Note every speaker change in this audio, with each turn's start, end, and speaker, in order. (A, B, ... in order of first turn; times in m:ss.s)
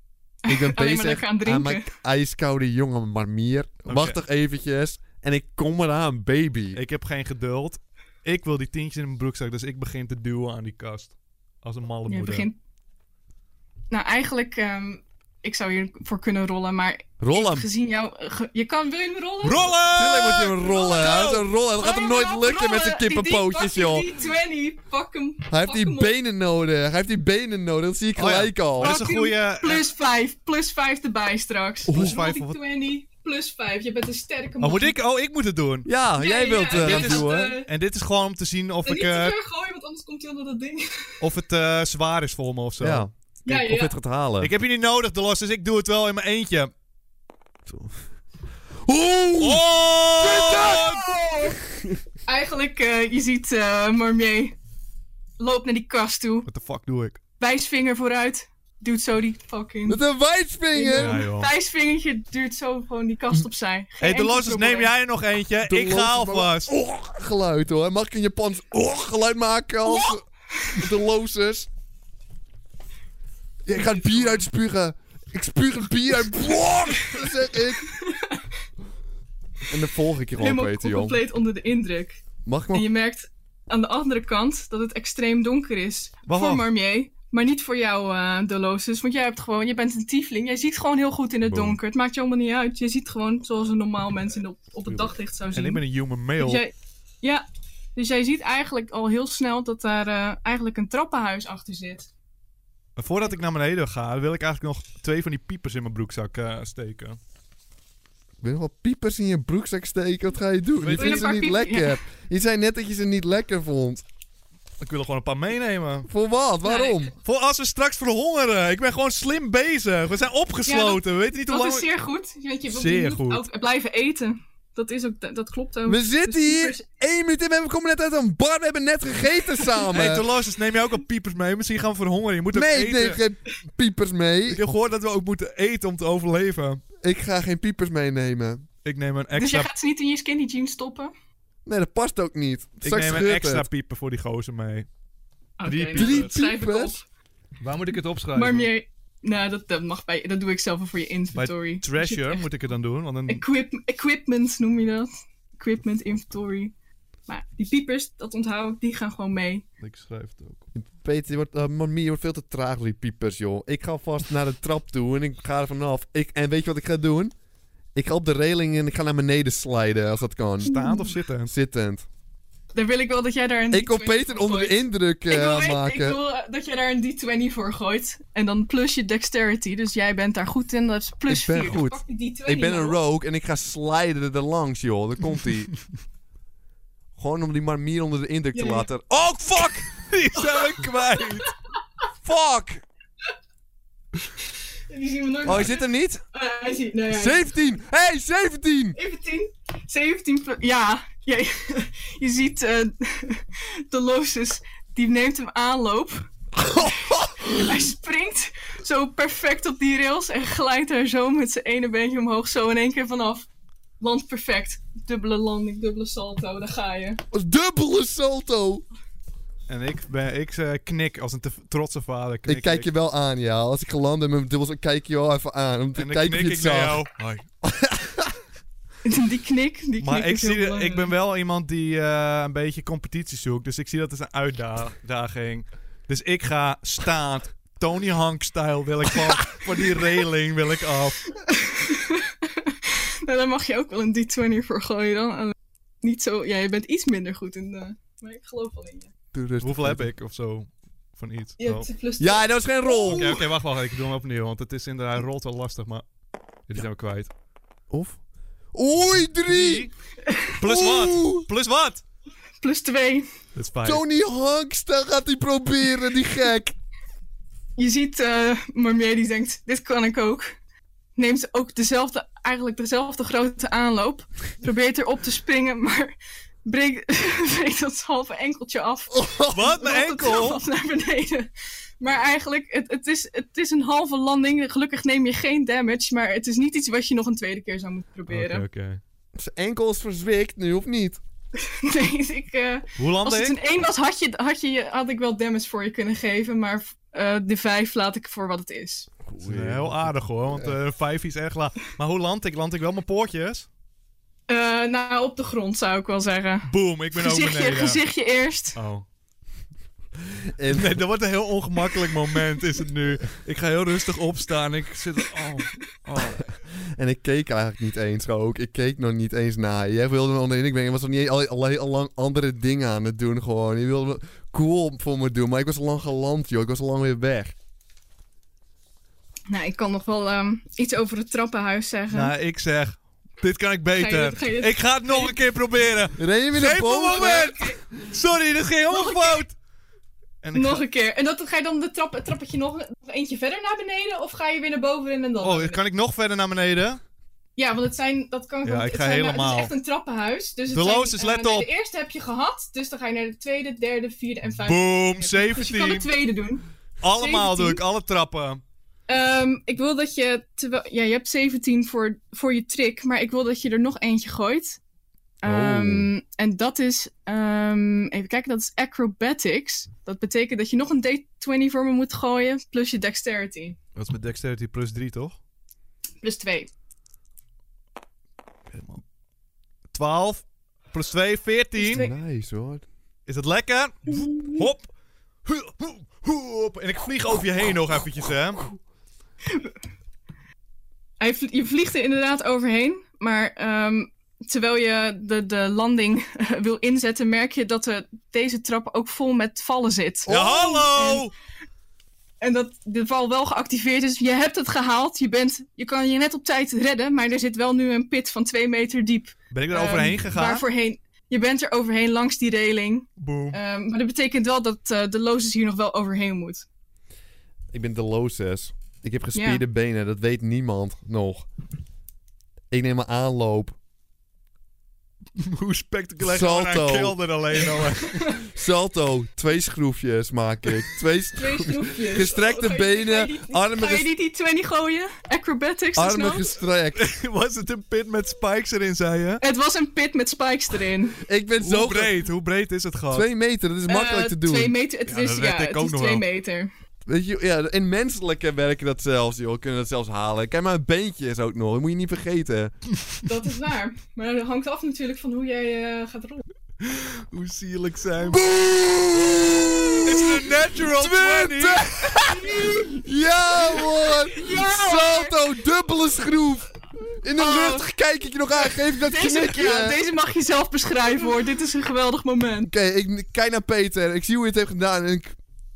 0:00.4-0:01.9 A
0:00.5-0:06.8 B
0:03.9-0:04.2 C
0:06.7-0:12.5 C
0:12.1-0:12.6 A
0:13.9-0:19.8 A
0:17.2-0:17.7 B
0:19.4-0:21.5 C
0:19.9-0:24.1 B
0:20.7-0:26.1 A
0:25.5-0:28.9 B
0:28.2-0:29.9 C
0:28.8-0:35.0 A
0:31.9-0:32.2 B
0:31.9-0:32.6 C
0:34.6-0:35.9 C
0:35.8-0:37.5 B
0:36.2-0:37.7 A
0:36.7-0:39.4 C
0:38.8-0:41.2 A
0:41.2-0:43.1 C
0:42.8-0:44.5 B
0:43.4-0:43.9 A
0:44.4-0:46.7 C
0:47.6-0:48.0 B
0:48.8-0:49.6 B
0:49.4-0:51.1 C
0:50.2-0:52.0 B
0:52.2-0:54.6 A
0:55.4-0:56.5 A
0:56.4-0:57.2 C
0:57.4-1:00.0 A
0:59.9-1:01.2 B
1:00.7-1:04.9 A
1:00.9-1:01.5 C
1:04.0-1:06.7 C
1:05.6-1:11.7 B
1:09.8-1:10.1 A
1:13.6-1:17.9 B
1:13.8-1:14.3 A
1:17.8-1:18.5 A
1:19.7-1:21.2 B
1:20.4-1:22.2 A
1:22.4-1:22.9 B
1:22.7-1:35.8 A
1:26.3-1:26.7 C
1:31.5-1:31.8 B
1:35.5-1:36.6 C
1:36.4-1:37.4 A
1:38.0-1:42.1 A
1:43.0-1:47.2 C
1:48.4-1:54.0 B
1:50.8-1:51.3 C
1:50.9-1:52.0 A
1:54.8-1:56.1 C
1:56.1-1:57.1 B
1:56.6-1:57.0 A
1:57.2-2:01.9 C
2:00.6-2:06.8 A
2:02.7-2:03.4 C
2:05.8-2:10.3 B
2:09.9-2:13.2 C
2:12.5-2:14.6 B
2:14.5-2:16.8 C
2:17.0-2:18.6 B
2:18.8-2:19.7 C
2:19.3-2:21.1 A
2:21.6-2:23.6 B
2:22.8-2:24.9 C
2:25.6-2:27.0 A
2:25.6-2:26.3 C
2:25.9-2:26.9 B
2:27.6-2:28.7 C
2:28.3-2:32.4 A
2:31.3-2:33.4 C
2:33.3-2:36.7 A
2:37.3-2:39.6 A
2:39.8-2:40.6 C
2:40.7-2:47.3 B
2:47.9-2:50.8 B
2:50.6-2:51.5 C
2:50.6-2:51.1 A
2:51.4-2:52.0 B
2:52.7-3:03.0 A
2:53.7-2:56.2 B
3:01.3-3:05.7 B
3:07.2-3:09.8 B
3:08.5-3:08.9 A
3:09.6-3:11.5 C
3:12.2-3:12.8 B
3:14.9-3:17.5 A
3:15.4-3:16.2 B
3:17.1-3:19.0 B
3:18.9-3:33.5 A
3:26.6-3:27.7 B
3:34.0-3:37.2 A
3:37.3-3:38.8 B
3:39.7-3:42.9 C
3:42.4-3:47.0 B
3:45.9-3:47.4 C
3:47.6-3:48.3 B
3:49.0-3:51.1 A
3:50.0-4:01.2 C
4:01.4-4:09.1 A
4:09.3-4:10.1 B
4:09.6-4:11.9 C
4:11.6-4:13.4 A
4:12.2-4:13.4 B
4:13.0-4:16.0 C
4:16.7-4:17.3 C
4:17.9-4:18.2 B
4:18.7-4:19.9 B
4:19.4-4:19.9 C
4:20.2-4:20.6 A
4:20.6-4:22.0 C
4:20.6-4:21.5 B
4:22.6-4:23.3 A
4:23.5-4:24.0 C
4:23.8-4:26.7 B
4:27.8-4:30.5 A
4:31.2-4:36.1 A
4:36.6-4:48.6 A
4:39.1-4:39.6 B
4:39.5-4:40.6 C
4:48.3-4:49.0 C
4:49.4-4:51.2 B
4:51.6-4:59.1 A
4:53.0-4:53.6 C
4:59.2-5:00.7 B
4:59.4-5:03.7 C
5:04.5-5:08.8 A
5:06.7-5:08.0 C
5:08.7-5:09.0 C
5:10.3-5:11.0 B
5:10.7-5:16.5 C
5:16.2-5:27.5 B
5:29.5-5:32.3 A
5:32.1-5:39.5 C
5:34.0-5:35.3 A
5:36.2-5:37.6 B
5:37.2-5:37.6 A
5:38.9-5:39.4 A
5:40.4-5:40.8 C
5:40.5-5:45.8 A
5:45.4-5:47.0 C
5:47.6-5:56.6 A
5:48.6-5:49.7 C
5:50.7-5:51.7 C
5:54.6-5:56.1 C
5:57.0-5:58.6 C
5:57.2-5:57.8 A
5:59.1-6:04.8 A
6:05.4-6:13.8 A
6:05.4-6:06.1 B
6:14.0-6:15.4 C
6:16.2-6:16.7 A
6:18.7-6:19.0 C
6:19.9-6:22.0 C
6:21.8-6:22.1 A
6:21.9-6:22.8 B
6:23.3-6:24.9 C
6:24.1-6:24.6 A
6:25.4-6:28.7 C
6:31.2-6:41.3 A
6:40.3-6:41.3 C
6:42.4-6:56.6 A
6:49.5-6:50.6 C
6:53.2-6:53.6 C
6:57.7-7:01.5 B
6:59.3-6:59.6 A
7:02.7-7:03.8 B
7:05.4-7:08.4 C
7:06.2-7:07.2 B
7:08.5-7:14.1 B
7:11.4-7:16.5 A
7:16.0-7:17.0 B
7:16.9-7:19.4 C
7:19.4-7:21.2 A
7:21.2-7:22.2 B
7:21.6-7:23.3 C
7:23.1-7:24.7 B
7:23.9-7:26.7 A
7:25.1-7:26.2 C
7:27.1-7:32.7 B
7:33.2-7:36.4 A
7:36.8-7:38.4 C
7:38.2-7:46.7 B
7:40.0-7:42.2 C
7:42.2-7:42.9 A
7:44.3-7:45.4 A
7:47.2-7:50.0 B
7:47.4-7:47.8 A
7:48.6-7:52.7 A
7:52.6-7:55.4 B